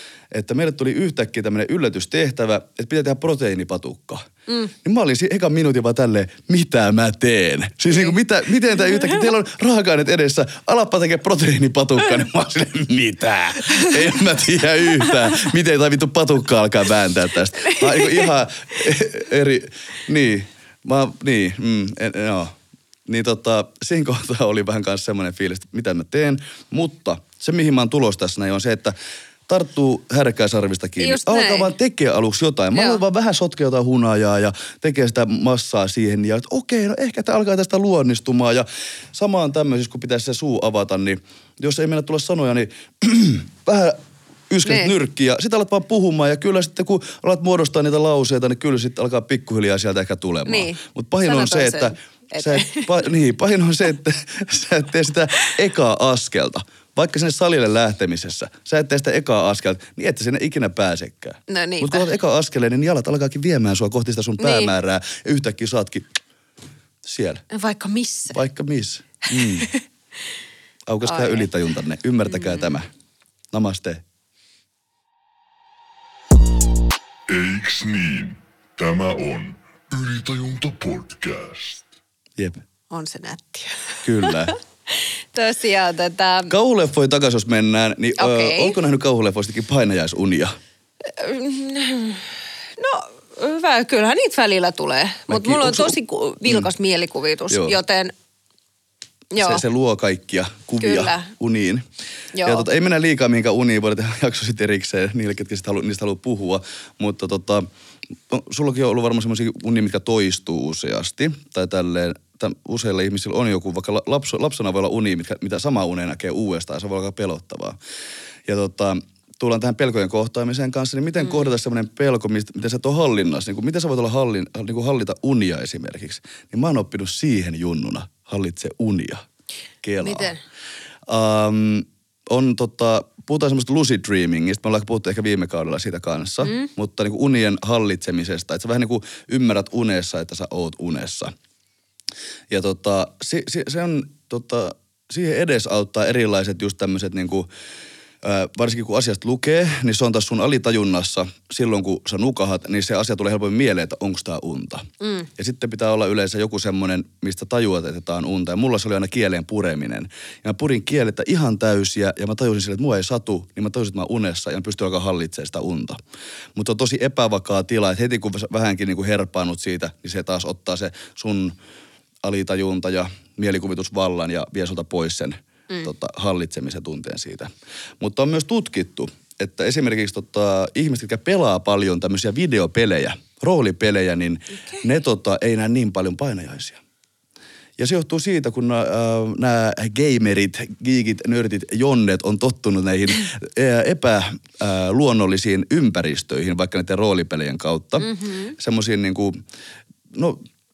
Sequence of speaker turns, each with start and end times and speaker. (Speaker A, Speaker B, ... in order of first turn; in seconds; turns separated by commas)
Speaker A: 0.3-4.2, Speaker B: 4.5-4.7, Speaker A: 4.8-22.6, Speaker B: 8.9-9.2, Speaker B: 17.6-18.3, Speaker A: 23.1-28.9, Speaker A: 29.5-66.1, Speaker B: 31.0-31.7, Speaker B: 32.7-33.0, Speaker B: 44.6-44.9, Speaker B: 50.5-52.9, Speaker B: 61.5-62.1, Speaker B: 64.4-64.7, Speaker A: 67.0-67.4, Speaker B: 67.5-68.4, Speaker A: 68.3-69.7, Speaker B: 69.4-69.8, Speaker A: 70.9-72.8, Speaker B: 71.0-71.5, Speaker B: 72.3-72.6, Speaker A: 73.5-74.0, Speaker C: 77.3-81.8, Speaker A: 82.4-82.6, Speaker B: 82.9-86.5, Speaker A: 84.0-84.5, Speaker A: 86.5-90.5, Speaker B: 88.2-88.8, Speaker B: 91.0-98.1, Speaker A: 95.3-96.7, Speaker A: 97.5-97.8, Speaker B: 99.3-99.6, Speaker A: 99.4-101.8, Speaker B: 100.8-101.3, Speaker B: 102.3-102.6, Speaker A: 102.4-107.7, Speaker A: 108.3-117.8, Speaker A: 118.5-129.2, Speaker B: 121.2-121.5, Speaker A: 129.8-130.3, Speaker B: 130.0-130.4, Speaker A: 131.1-141.3, Speaker B: 136.4-136.7, Speaker A: 142.5-147.5, Speaker A: 148.2-154.8, Speaker B: 155.0-155.3, Speaker A: 155.4-166.0, Speaker A: 166.6-171.5, Speaker A: 172.2-186.8, Speaker A: 187.8-199.4, Speaker B: 198.0-198.5, Speaker A: 200.1-200.4